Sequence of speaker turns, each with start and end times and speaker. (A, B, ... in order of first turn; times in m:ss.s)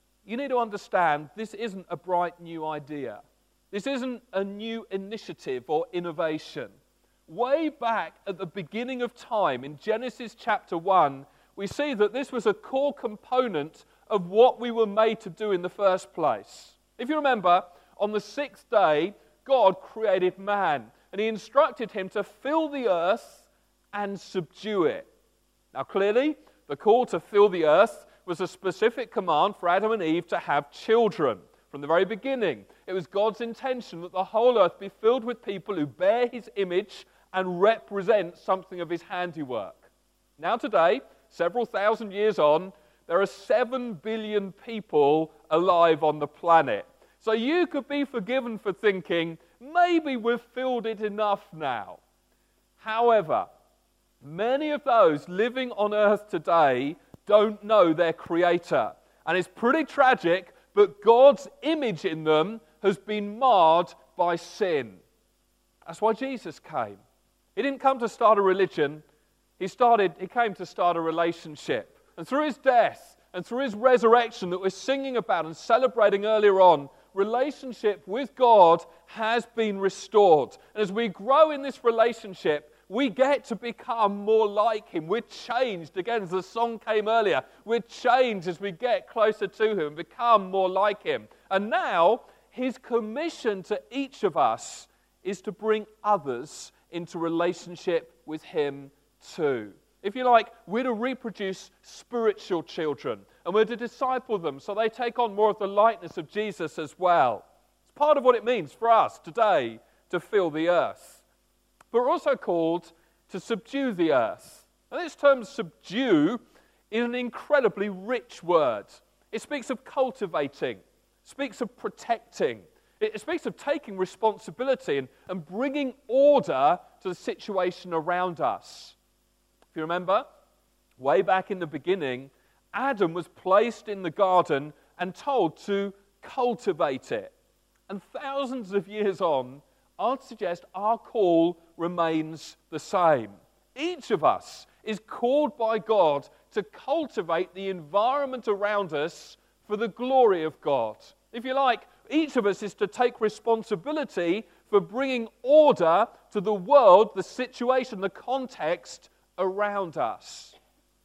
0:00.2-0:06.7 A
0:07.3-0:25.1 A
0:25.7-0:52.0 A
0:52.8-0:53.5 A
0:54.2-1:05.0 A
1:05.8-1:07.0 A
1:07.6-1:09.0 A
1:09.6-1:51.2 A
1:51.9-2:09.0 A
2:09.7-2:10.2 A
2:11.0-2:17.3 A
2:17.9-2:40.5 A